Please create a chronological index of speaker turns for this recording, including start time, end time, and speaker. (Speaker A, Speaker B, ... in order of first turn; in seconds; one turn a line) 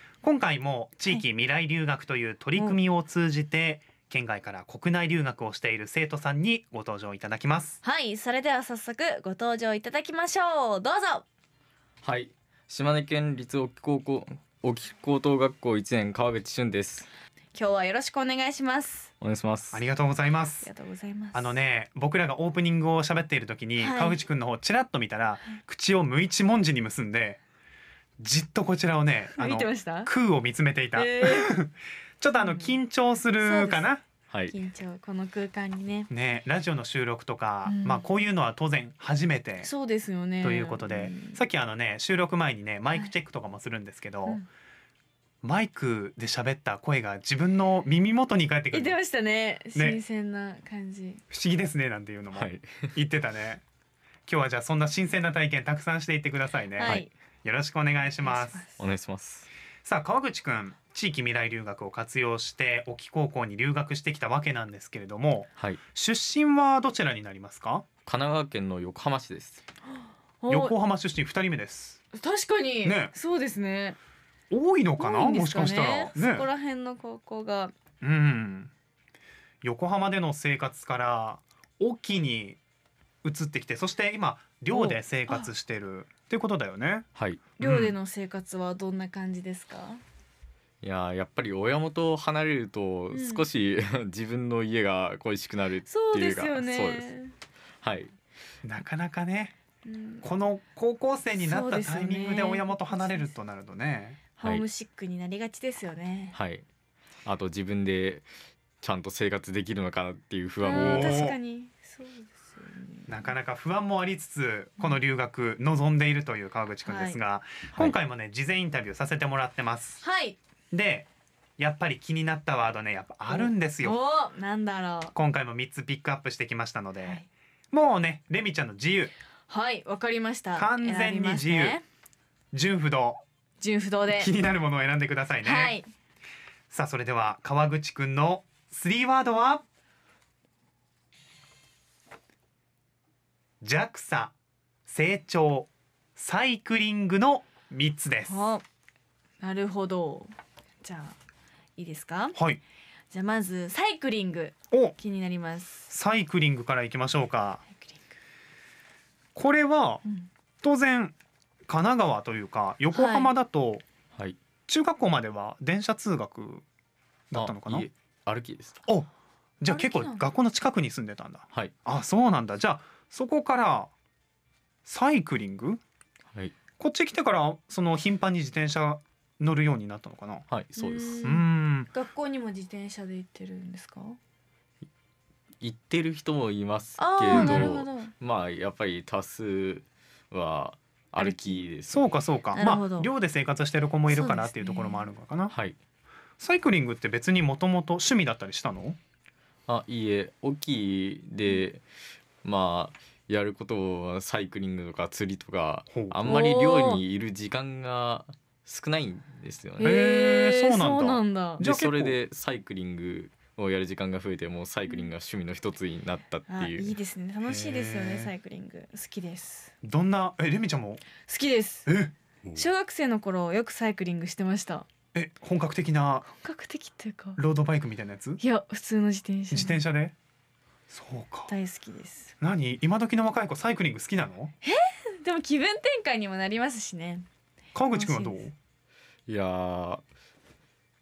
Speaker A: 0.2-7.8
Speaker B: 7.8-11.2
Speaker C: 12.0-17.1
Speaker B: 17.5-19.1
Speaker C: 19.2-19.8
Speaker A: 19.7-20.7
Speaker B: 20.6-21.6
Speaker A: 21.3-27.4
Speaker B: 23.8-24.2
Speaker A: 28.2-34.0
Speaker B: 29.4-30.1
Speaker B: 30.9-31.5
Speaker B: 32.4-32.8
Speaker B: 33.4-33.9
Speaker B: 34.5-36.1
Speaker A: 36.1-39.7
Speaker B: 37.6-38.0
Speaker B: 39.6-41.4
Speaker A: 40.4-44.4
Speaker A: 45.4-49.0
Speaker B: 48.7-51.2
Speaker A: 49.7-50.0
Speaker A: 51.3-53.6
Speaker C: 52.3-52.9
Speaker A: 54.3-58.6
Speaker B: 56.8-57.1
Speaker B: 58.2-58.8
Speaker C: 58.8-59.5
Speaker A: 59.8-67.9
Speaker C: 68.1-69.6
Speaker B: 70.4-70.7
Speaker A: 70.5-72.0
Speaker B: 72.1-74.0
Speaker A: 72.8-73.1
Speaker A: 74.5-76.5
Speaker B: 75.0-77.7
Speaker A: 78.0-78.7
Speaker A: 79.6-82.6
Speaker A: 83.2-87.1
Speaker B: 84.7-85.5
Speaker C: 87.2-87.4
Speaker A: 87.6-88.0
Speaker B: 87.6-90.0
Speaker C: 90.8-97.1
Speaker B: 93.1-93.5
Speaker B: 95.9-97.3
Speaker C: 97.8-98.1
Speaker A: 98.6-99.5
Speaker B: 99.8-100.2
Speaker A: 100.2-104.2
Speaker B: 101.3-103.3
Speaker B: 104.4-106.4
Speaker C: 106.3-106.7
Speaker C: 107.2-108.3
Speaker C: 108.8-111.2
Speaker B: 110.6-113.3
Speaker A: 110.8-111.4
Speaker A: 113.1-120.0
Speaker B: 116.8-117.2
Speaker B: 120.0-120.4
Speaker A: 120.7-124.0
Speaker B: 123.3-125.1
Speaker A: 125.1-129.1
Speaker B: 129.5-131.8
Speaker A: 130.6-131.8
Speaker A: 132.5-133.2
Speaker B: 133.6-134.3
Speaker A: 134.1-135.8
Speaker B: 135.4-135.9
Speaker A: 136.7-139.6
Speaker A: 143.6-144.3
Speaker A: 144.9-148.5
Speaker B: 148.3-148.6
Speaker B: 149.4-151.2
Speaker B: 151.8-152.4
Speaker A: 152.3-152.6
Speaker B: 153.1-155.9
Speaker A: 154.7-155.0
Speaker A: 155.9-157.6
Speaker B: 157.8-158.0
Speaker A: 159.3-160.0
Speaker A: 160.6-161.2
Speaker A: 161.7-163.8
Speaker B: 162.9-163.3
Speaker A: 164.7-166.7
Speaker A: 167.3-167.9
Speaker C: 167.3-168.8
Speaker A: 169.6-173.9
Speaker B: 169.7-170.3
Speaker A: 174.9-175.8
Speaker A: 176.8-180.4
Speaker C: 180.5-181.4
Speaker B: 180.8-184.2
Speaker A: 181.2-181.9
Speaker C: 185.6-192.0
Speaker B: 187.0-188.1
Speaker A: 187.3-187.7
Speaker B: 191.2-191.6
Speaker A: 191.9-195.5
Speaker B: 192.5-193.1
Speaker B: 194.1-195.1
Speaker C: 195.5-195.8
Speaker A: 196.4-199.0
Speaker C: 199.7-201.8
Speaker C: 202.4-209.9
Speaker A: 205.9-206.3
Speaker B: 206.3-207.0
Speaker B: 209.8-211.6
Speaker A: 209.8-212.2
Speaker C: 211.6-216.9
Speaker B: 216.5-219.7
Speaker A: 217.5-218.3
Speaker A: 219.8-221.0
Speaker B: 221.2-221.9
Speaker A: 221.9-222.1
Speaker B: 222.5-224.9
Speaker A: 225.1-226.3
Speaker B: 226.3-227.4
Speaker A: 227.4-228.4
Speaker B: 228.4-229.8
Speaker A: 229.5-230.1
Speaker A: 230.9-231.5
Speaker B: 231.5-232.3
Speaker A: 232.4-234.5
Speaker B: 234.6-237.3
Speaker A: 237.7-238.5
Speaker B: 237.9-238.5
Speaker C: 239.3-240.0